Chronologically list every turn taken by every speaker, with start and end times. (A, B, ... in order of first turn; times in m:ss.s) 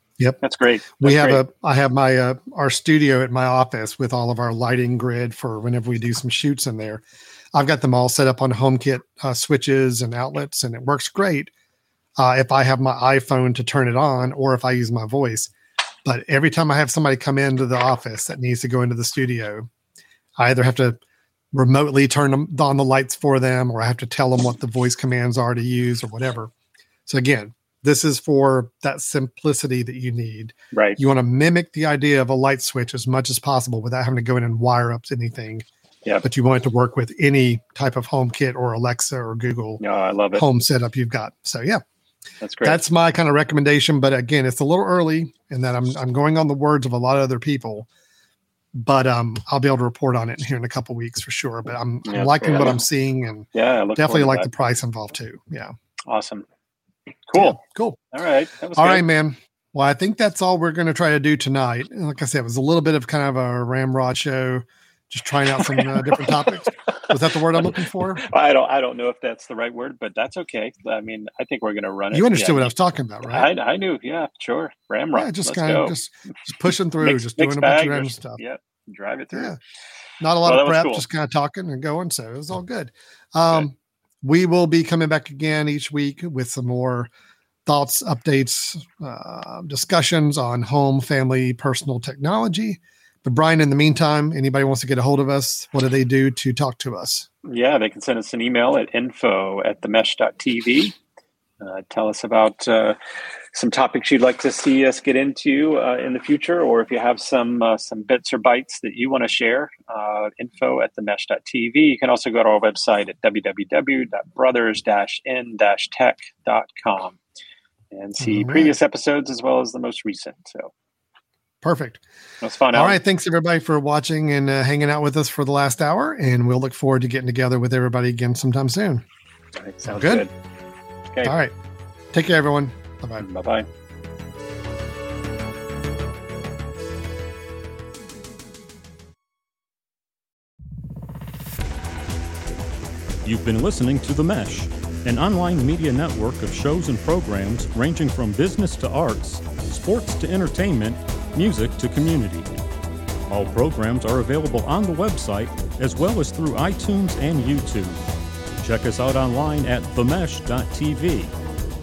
0:00.4-0:01.4 A
0:01.0-0:11.5 B
0:12.2-0:15.5 B
0:16.0-0:19.7 B
0:20.4-0:21.0 B
0:21.5-0:26.5 B
0:27.0-0:35.6 B
0:30.7-0:31.0 A
0:36.2-0:39.8 B
0:39.8-0:40.4 A
0:40.3-0:41.8 B
0:42.4-0:42.8 A
0:42.6-0:47.9 B
0:48.7-0:55.7 B
0:52.0-0:52.8 A
0:53.5-0:54.5 A
0:56.1-0:56.4 A
0:57.3-0:57.6 A
0:57.4-0:58.0 B
0:58.1-0:59.0 A
0:58.8-1:08.2 B
1:05.6-1:12.7 A
1:12.1-1:13.5 B
1:13.2-1:16.0 A
1:15.1-1:18.4 B
1:17.0-1:19.5 A
1:19.3-1:19.6 B
1:20.2-1:27.1 B
1:20.4-1:21.0 A
1:27.6-1:37.3 B
1:37.4-1:41.0 A
1:41.6-1:43.0 A
1:43.5-1:57.2 A
1:57.9-2:00.7 A
1:58.2-1:58.8 B
2:01.6-2:02.0 B
2:02.4-2:03.0 A
2:02.7-2:09.0 B
2:09.6-2:10.3 A
2:09.8-2:10.3 B
2:11.2-2:11.5 B
2:12.1-2:13.2 B
2:13.2-2:13.7 A
2:23.2-2:32.5 C
2:33.3-2:38.0 C
2:38.6-2:41.3 C